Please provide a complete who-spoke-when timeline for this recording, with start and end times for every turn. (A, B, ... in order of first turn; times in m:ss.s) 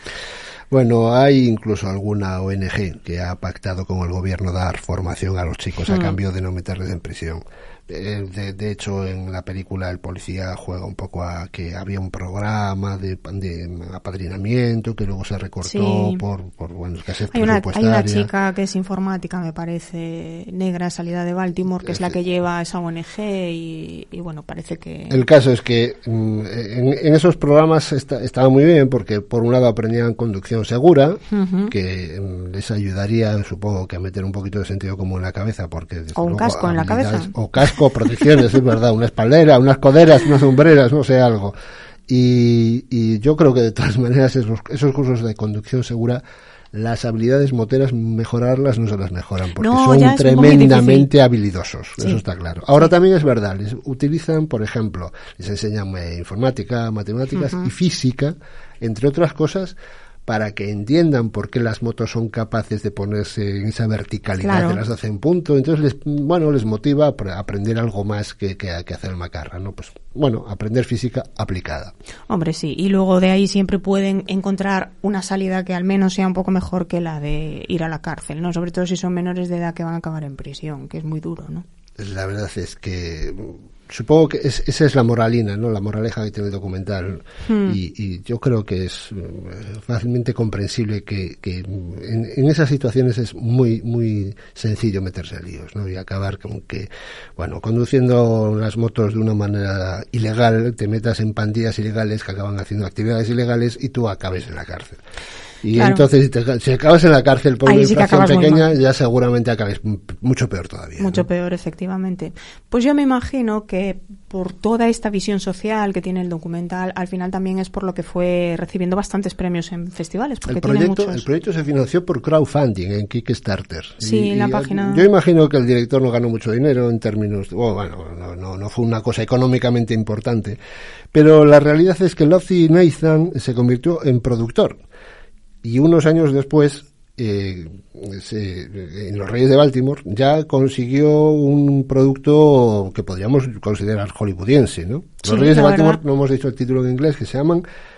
0:00.7-0:18.3 A
0:05.9-0:06.2 B
0:15.6-0:16.2 B
0:17.3-0:25.3 B
0:21.9-0:22.2 A
0:25.1-0:41.6 A
0:31.3-0:31.7 B
0:36.1-0:37.3 B
0:42.1-0:46.2 A
0:46.7-0:59.8 A
0:49.6-0:51.1 B
0:57.3-0:57.7 B
1:00.3-1:11.9 A
1:04.4-1:04.8 B
1:12.3-1:21.7 B
1:22.0-1:45.0 A
1:27.4-1:27.8 B
1:45.6-1:51.2 A
1:45.8-1:46.1 B
1:47.7-1:48.7 B
1:51.0-2:01.3 B
2:00.5-2:10.6 A
2:04.0-2:05.1 B
2:11.1-2:14.8 A
2:15.6-2:27.6 A
2:25.2-2:26.0 B